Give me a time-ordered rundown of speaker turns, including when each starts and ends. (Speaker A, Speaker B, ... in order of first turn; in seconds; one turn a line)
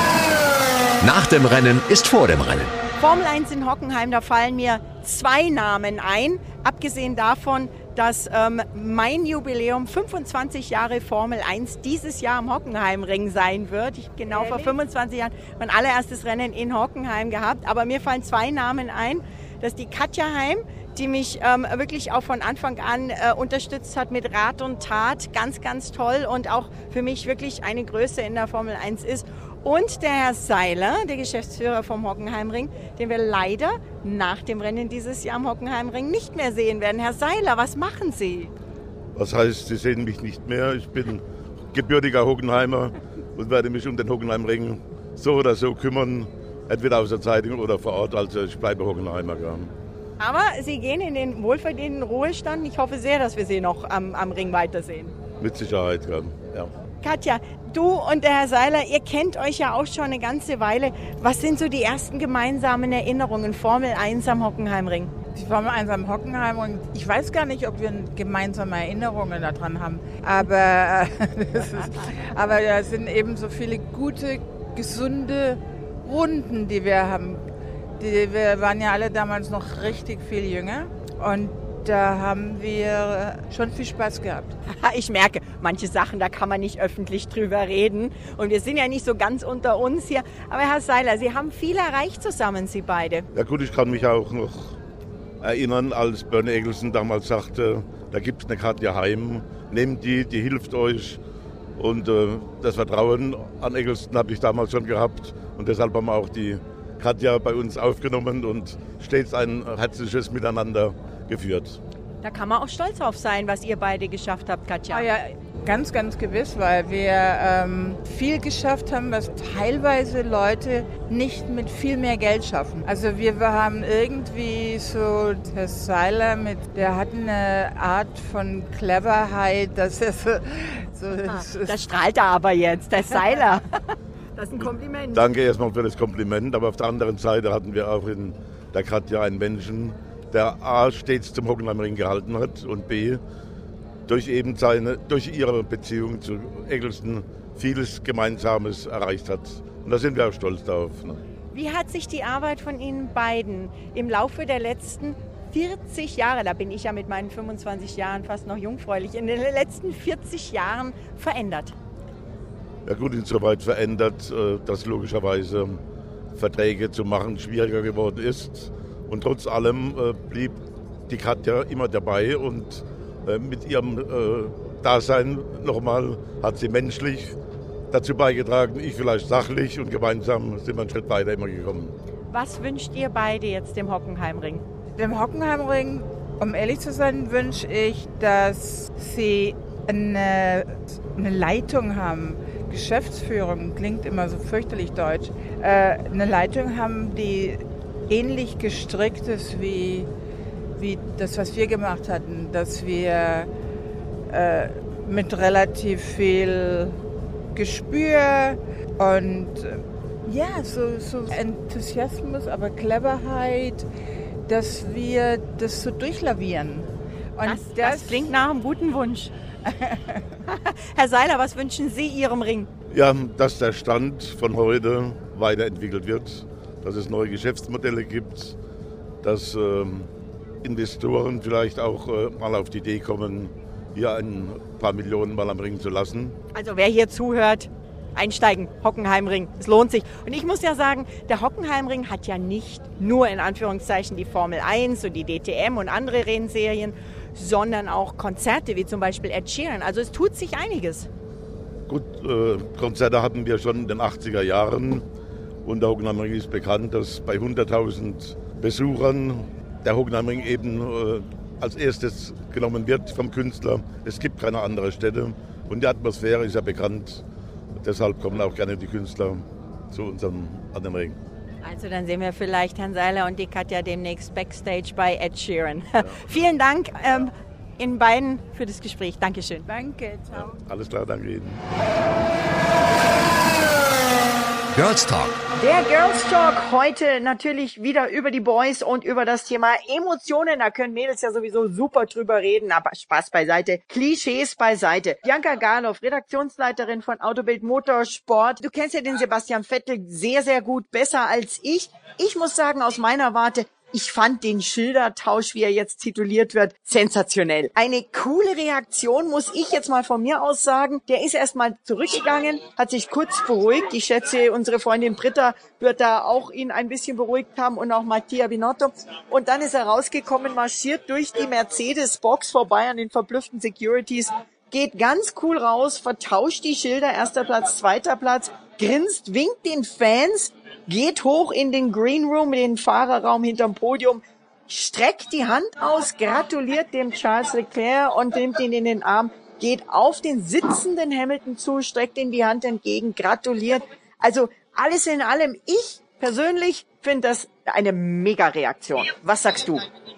Speaker A: 1.0-2.7
Speaker B: 3.0-38.5
Speaker C: 14.3-14.8
Speaker D: 39.1-49.7
Speaker B: 50.2-55.1
Speaker D: 55.4-56.7
Speaker B: 57.0-65.1
Speaker C: 65.3-77.4
Speaker C: 78.0-84.5
Speaker B: 84.7-93.2
Speaker D: 93.3-94.7
Speaker D: 95.4-101.2
Speaker D: 101.8-111.8
Speaker B: 112.2-115.1
Speaker C: 114.9-131.8
Speaker B: 131.3-133.7
Speaker B: 134.4-135.2
Speaker D: 135.1-143.2
Speaker D: 144.1-151.2
Speaker B: 151.5-161.7
Speaker D: 162.8-165.8
Speaker D: 166.3-177.3
Speaker D: 177.9-181.9
Speaker B: 182.3-184.6
Speaker C: 185.0-200.1
Speaker C: 200.8-203.5
Speaker C: 204.3-207.0
Speaker C: 207.5-213.8
Speaker C: 214.5-218.3
Speaker B: 217.4-219.3
Speaker C: 219.6-220.2
Speaker B: 220.5-222.7
Speaker D: 222.9-228.6
Speaker D: 229.2-230.1
Speaker D: 230.6-236.3
Speaker B: 236.5-251.1
Speaker D: 251.9-255.0
Speaker D: 255.6-267.2
Speaker D: 267.8-271.1
Speaker B: 271.6-279.6
Speaker C: 279.6-280.6
Speaker D: 280.3-281.6
Speaker A: 284.7-285.4
Speaker B: 285.6-349.8